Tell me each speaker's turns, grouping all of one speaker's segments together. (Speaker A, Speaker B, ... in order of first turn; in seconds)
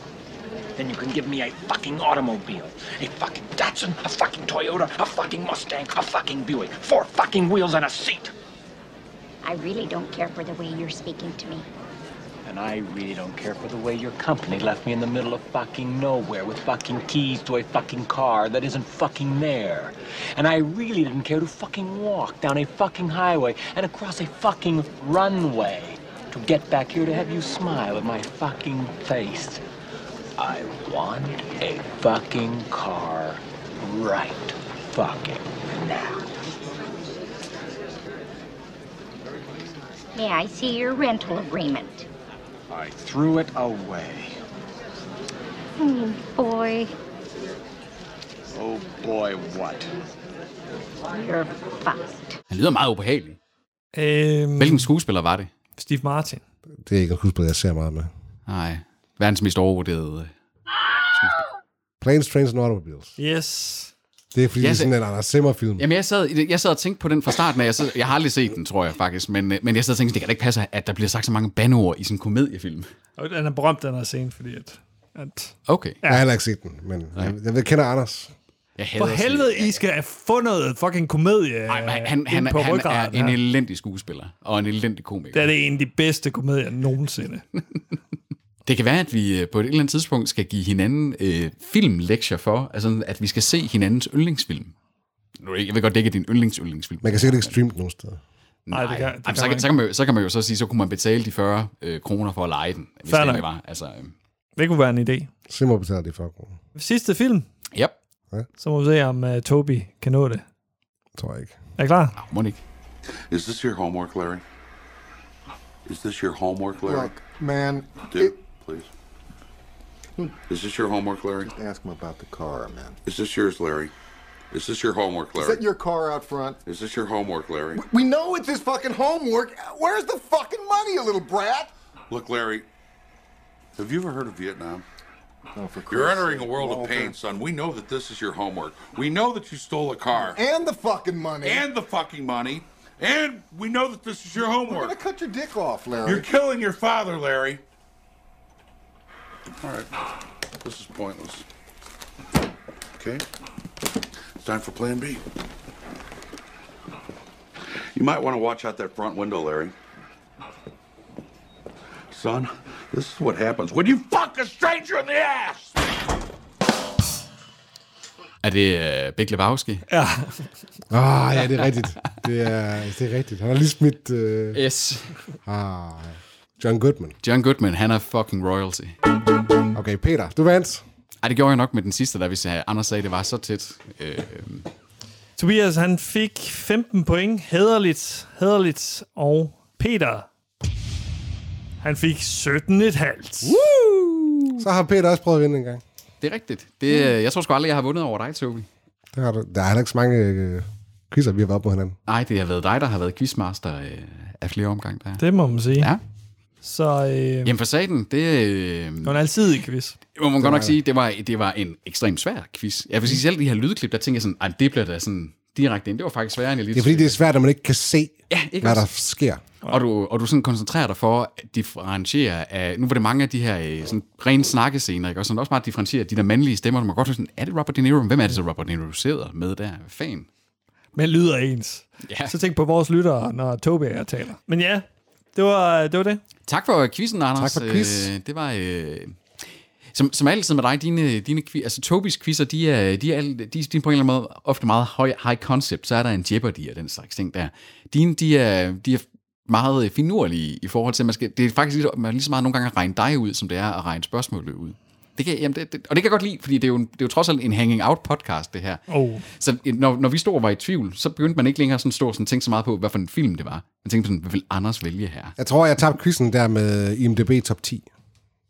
Speaker A: 0.8-8.3, 12.4-29.6, 30.4-36.3, 42.8-44.4, 48.5-49.9
Speaker B: 9.4-11.7, 40.1-42.1, 45.8-46.9, 51.1-52.4
Speaker C: 52.5-53.4, 54.6-55.5, 58.5-60.3, 61.1-61.4, 64.6-64.9, 65.8-72.9, 75.7-76.0, 78.8-79.8, 81.7-85.5, 88.7-94.7, 95.4-97.5, 98.7-104.1, 112.2-112.6, 168.4-169.8, 174.5-175.2, 177.2-178.9, 181.2-184.7, 193.5-194.6, 196.2-198.7, 202.1-205.2, 207.4-209.2, 210.2-217.2, 218.3-218.9, 219.7-230.3, 232.1-232.4, 236.5-265.4
Speaker D: 53.9-54.9, 55.8-56.4, 63.2-63.9, 73.2-76.2, 79.0-83.4, 85.3-87.4, 98.7-99.7, 103.1-103.5, 104.6-105.3, 106.8-107.5, 108.6-110.4, 111.8-112.2, 169.9-170.5, 185.4-190.3, 191.8-193.5, 205.2-205.9, 206.6-207.5, 209.0-210.0, 231.0-236.2, 258.9-259.2
Speaker E: 56.8-58.1, 62.0-63.1, 64.3-65.9, 76.0-78.3, 97.0-98.2, 105.5-106.6, 111.2-111.5, 170.9-174.6, 175.5-177.2, 179.7-180.8, 194.6-195.8, 199.1-202.0, 210.4-210.8, 216.7-219.4, 237.4-238.1, 265.4-267.9
Speaker F: 113.3-114.4, 115.9-117.2, 118.1-118.9, 120.5-121.5, 123.0-123.9, 124.5-125.7, 126.7-127.8, 132.1-132.7, 133.8-134.8, 135.8-140.4, 141.4-145.0, 146.0-147.6, 149.6-149.9, 150.6-151.4, 153.0-153.2, 154.4-155.2, 157.9-159.7, 162.1-165.7
Speaker G: 116.8-118.3, 121.5-123.0, 125.4-126.6, 127.7-131.7, 135.6-137.2, 140.2-141.7, 144.4-146.3